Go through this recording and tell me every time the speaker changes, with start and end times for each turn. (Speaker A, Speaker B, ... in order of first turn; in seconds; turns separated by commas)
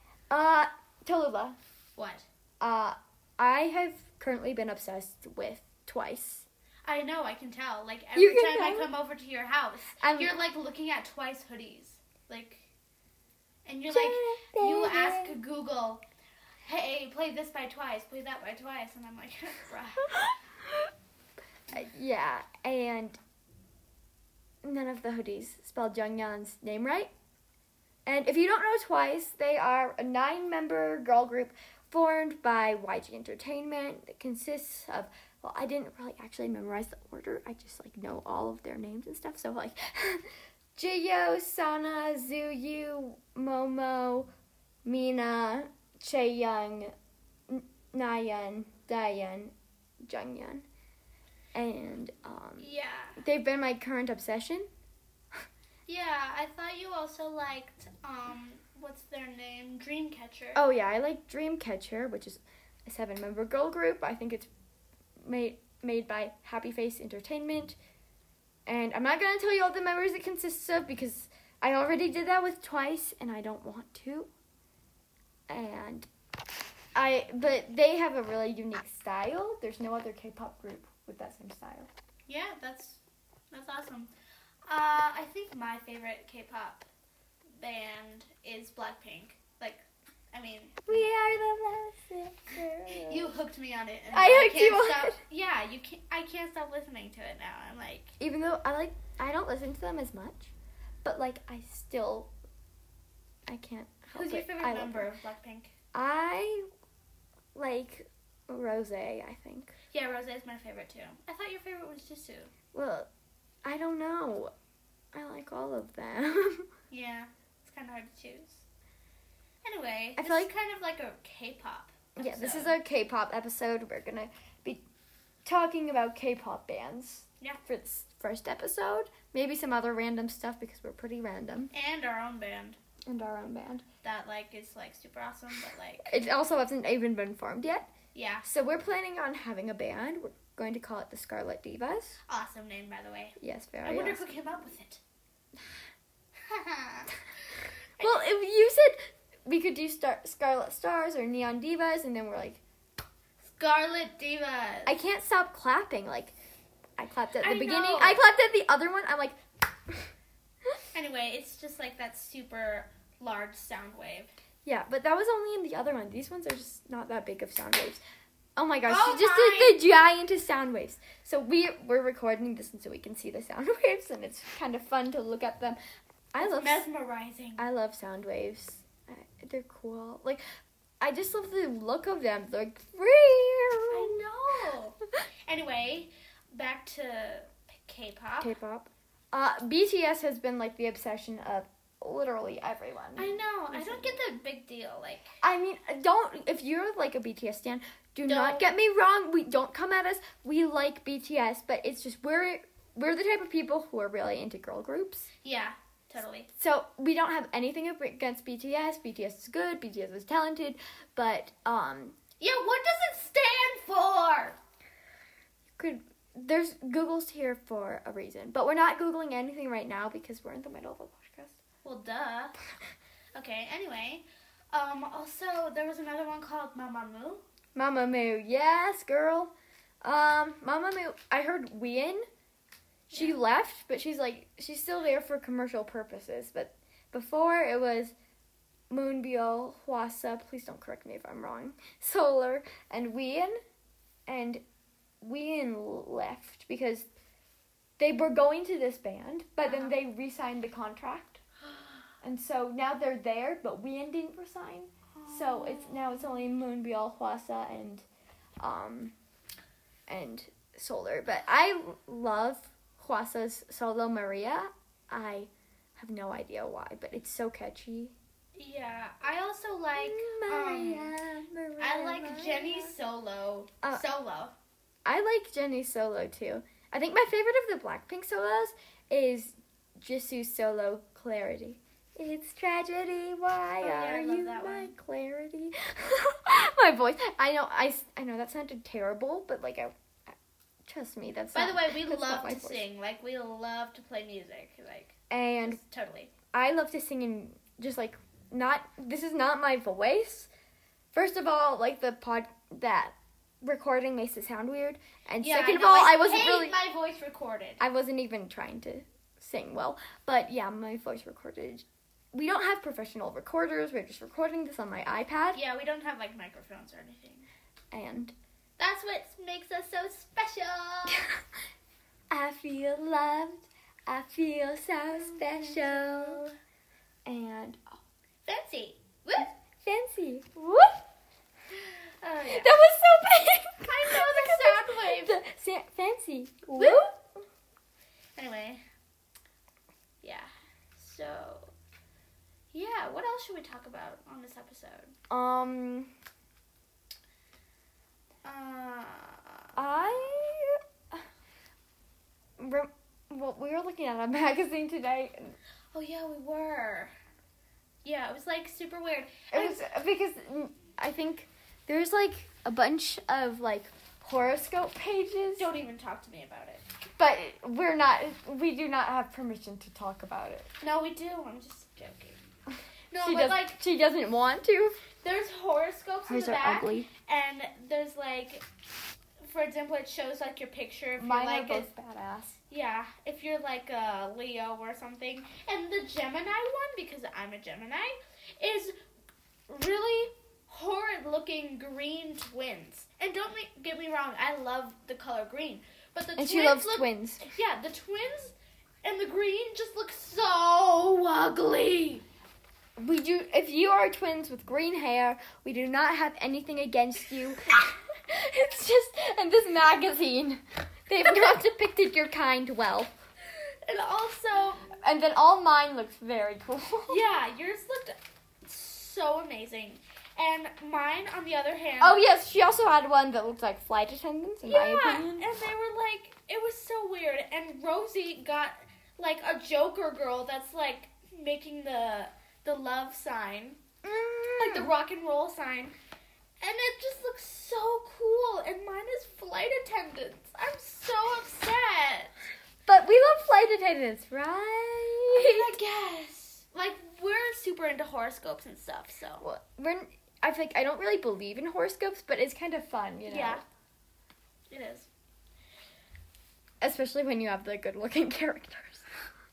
Speaker A: 0.3-1.6, Speaker B: 2.0-2.3, Speaker A: 2.6-6.5, Speaker B: 6.8-12.7, Speaker A: 8.2-8.9, Speaker A: 10.0-10.4, Speaker B: 13.7-16.0, Speaker A: 13.9-15.4, Speaker B: 16.6-20.3, Speaker A: 21.7-23.2, Speaker A: 24.6-27.1, Speaker A: 28.1-44.3, Speaker A: 44.9-46.9, Speaker A: 47.5-50.7, Speaker A: 51.5-54.7, Speaker B: 52.6-53.2, Speaker B: 55.9-60.6, Speaker A: 60.5-64.5, Speaker A: 65.2-67.8, Speaker A: 68.7-74.3, Speaker A: 75.5-76.1, Speaker A: 77.0-81.9, Speaker B: 82.3-83.0, Speaker B: 83.5-84.1, Speaker B: 84.7-86.8, Speaker B: 87.6-90.8, Speaker A: 90.9-93.3, Speaker B: 92.9-98.2, Speaker A: 94.1-95.2, Speaker A: 98.2-100.5, Speaker A: 101.0-102.3, Speaker A: 103.5-105.1, Speaker B: 104.1-105.7, Speaker A: 105.9-106.7, Speaker A: 107.5-109.7, Speaker B: 109.9-112.5, Speaker A: 112.7-113.1, Speaker A: 113.6-114.5, Speaker A: 115.1-116.7, Speaker B: 116.9-118.6, Speaker B: 119.6-122.8, Speaker A: 120.2-120.5, Speaker A: 122.2-124.8, Speaker A: 125.5-131.7, Speaker B: 131.7-132.8, Speaker A: 133.1-133.8, Speaker B: 134.0-136.1, Speaker A: 136.1-137.9, Speaker B: 138.1-138.5, Speaker A: 138.4-142.2, Speaker B: 142.3-145.0, Speaker A: 143.4-144.4, Speaker B: 146.5-147.1, Speaker B: 148.0-148.3, Speaker A: 148.0-152.6, Speaker B: 153.4-155.0, Speaker A: 154.9-156.3, Speaker A: 157.0-159.4, Speaker B: 157.4-158.2, Speaker B: 160.9-164.3, Speaker A: 164.7-168.0, Speaker A: 168.6-175.8, Speaker B: 168.9-169.9, Speaker A: 176.3-176.8, Speaker B: 176.4-177.6, Speaker A: 177.6-180.4, Speaker A: 181.0-184.1, Speaker B: 183.9-188.5, Speaker A: 188.4-194.2, Speaker B: 193.2-195.4, Speaker A: 195.4-205.3, Speaker B: 198.3-198.7, Speaker B: 205.4-206.5, Speaker A: 206.6-212.2, Speaker B: 212.4-214.6, Speaker A: 215.8-221.6, Speaker B: 221.8-222.6, Speaker B: 223.3-227.4, Speaker A: 227.8-232.2, Speaker A: 233.1-238.1, Speaker A: 238.9-243.6, Speaker A: 244.3-244.6, Speaker A: 245.2-247.1, Speaker A: 248.0-251.4, Speaker B: 249.6-250.0, Speaker A: 252.2-258.1, Speaker B: 255.1-256.2, Speaker A: 258.6-259.1, Speaker A: 260.1-268.1, Speaker B: 268.6-271.2, Speaker A: 270.0-272.9, Speaker B: 271.8-274.6, Speaker A: 275.1-290.3, Speaker B: 283.8-284.9, Speaker A: 290.9-292.9, Speaker B: 291.5-296.3, Speaker A: 295.3-295.8, Speaker A: 296.5-300.5, Speaker A: 301.1-306.8, Speaker B: 305.4-307.8, Speaker A: 307.8-315.6, Speaker B: 315.6-317.5, Speaker A: 317.9-318.4, Speaker B: 318.8-321.3, Speaker A: 322.3-326.5, Speaker B: 325.2-326.5, Speaker A: 327.3-327.8, Speaker B: 328.5-329.5, Speaker A: 329.4-331.0, Speaker B: 331.8-332.7, Speaker A: 332.5-337.3, Speaker B: 333.8-335.4, Speaker B: 336.8-337.1, Speaker B: 338.4-338.8, Speaker B: 340.2-341.7, Speaker B: 342.7-345.1, Speaker A: 345.3-346.1, Speaker B: 348.4-350.0, Speaker A: 349.8-351.2, Speaker A: 352.6-355.6, Speaker B: 355.9-357.1, Speaker B: 358.0-359.8, Speaker A: 359.5-365.7, Speaker B: 365.6-366.8, Speaker A: 367.2-370.7, Speaker B: 370.8-372.4, Speaker B: 373.1-373.8, Speaker A: 373.2-375.0, Speaker B: 375.2-378.6, Speaker A: 376.3-377.1, Speaker B: 379.4-381.9, Speaker A: 381.2-382.6, Speaker B: 382.7-388.9, Speaker B: 389.7-402.2, Speaker A: 396.4-397.5, Speaker A: 403.0-413.1, Speaker B: 413.9-414.9, Speaker A: 415.0-417.2, Speaker B: 417.1-422.2, Speaker A: 422.0-425.5, Speaker B: 424.6-433.8, Speaker A: 434.0-434.9, Speaker B: 434.6-435.9, Speaker B: 436.6-442.3, Speaker A: 442.9-445.8, Speaker B: 445.3-449.4, Speaker A: 449.4-453.6, Speaker B: 453.3-453.6, Speaker B: 454.7-455.1, Speaker A: 456.8-459.1